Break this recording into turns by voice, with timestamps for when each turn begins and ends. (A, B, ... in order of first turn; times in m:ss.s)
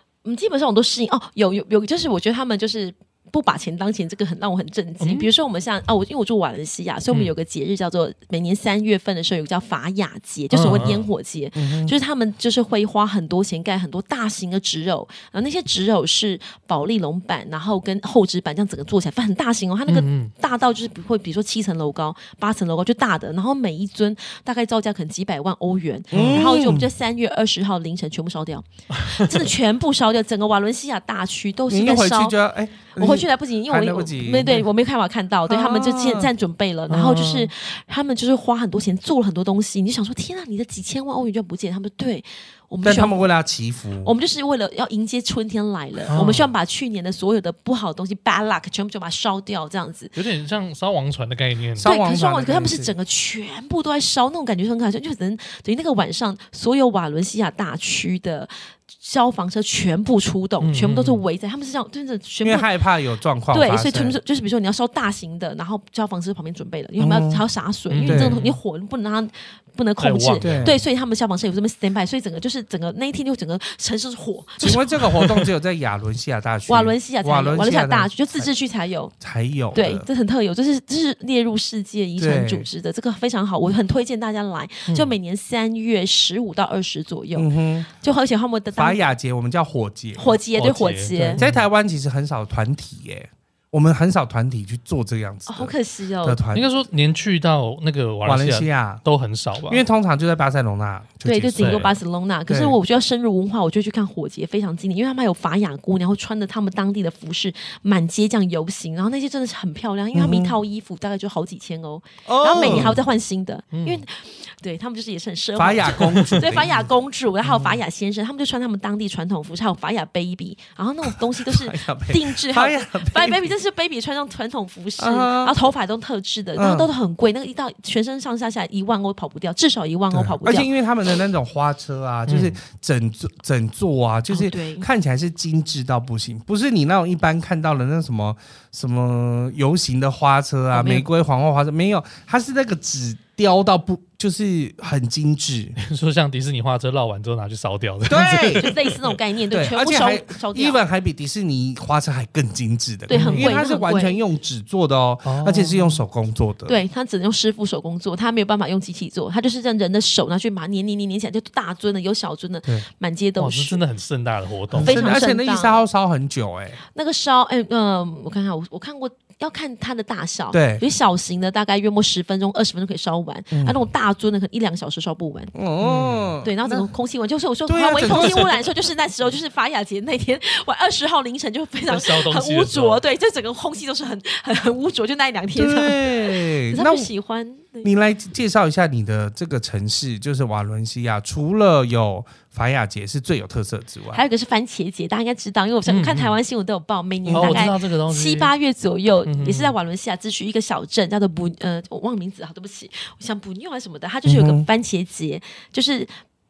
0:00.2-0:32.4 A
0:05.0-0:05.3 B
0:10.5-0:11.1 B
0:11.6-0:11.9 C
0:19.9-0:20.3 B
0:26.1-0:26.9 C
0:26.1-0:26.4 B
0:31.7-0:34.6 C
0:32.9-0:43.2 A
0:35.5-0:36.3 C
0:36.9-0:37.5 B
0:42.8-0:44.1 C
0:44.0-0:50.1 A
0:46.1-0:46.5 B
0:50.1-0:51.9 B
0:51.8-0:52.9 C
0:51.8-1:02.7 A
1:00.6-1:01.2 B
1:02.4-1:04.2 C
1:03.5-1:15.0 A
1:07.0-1:07.4 C
1:07.9-1:08.6 B
1:08.0-1:08.4 C
1:10.0-1:10.7 B
1:10.4-1:10.8 C
1:14.6-1:18.5 C
1:14.6-1:15.5 B
1:16.7-1:19.1 A
1:19.2-1:20.0 C
1:19.7-1:29.0 A
1:22.2-1:22.7 C
1:24.9-1:25.1 B
1:27.3-1:27.9 C
1:28.7-1:30.3 C
1:30.2-1:31.4 A
1:30.5-1:31.6 B
1:31.4-1:36.7 C
1:35.5-1:36.4 A
1:36.5-1:39.8 B
1:38.2-1:39.0 C
1:39.7-1:41.9 C
1:41.2-2:10.7 A
1:41.6-1:41.9 B
1:42.5-1:42.8 C
1:50.1-1:50.5 C
1:52.2-1:53.0 C
1:52.6-1:53.0 B
1:53.7-1:54.0 B
1:55.6-1:56.9 C
1:56.0-1:56.4 B
2:01.4-2:03.5 C
2:05.0-2:05.6 C
2:06.6-2:06.9 C
2:10.1-2:25.8 C
2:12.3-2:12.6 B
2:14.3-2:14.9 A
2:20.7-2:21.1 A
2:25.8-2:28.9 B
2:28.1-2:28.7 C
2:28.5-2:30.8 A
2:29.5-2:36.8 C
2:33.1-2:34.2 A
2:33.1-2:33.6 B
2:35.2-2:36.0 B
2:36.6-2:43.8 A
2:43.4-2:45.2 B
2:44.7-2:46.8 C
2:44.8-2:45.8 A
2:46.9-2:55.5 A
2:50.5-2:50.8 C
2:53.5-2:53.8 C
2:55.5-2:56.9 C
2:55.8-2:56.3 B
2:56.4-3:07.9 A
2:57.7-2:58.5 C
3:01.9-3:03.0 B
3:05.5-3:07.1 C
3:07.8-3:14.2 C
3:14.1-3:26.1 A
3:15.9-3:16.4 B
3:17.2-3:17.7 C
3:17.3-3:18.5 B
3:19.2-3:19.7 B
3:24.2-3:24.6 C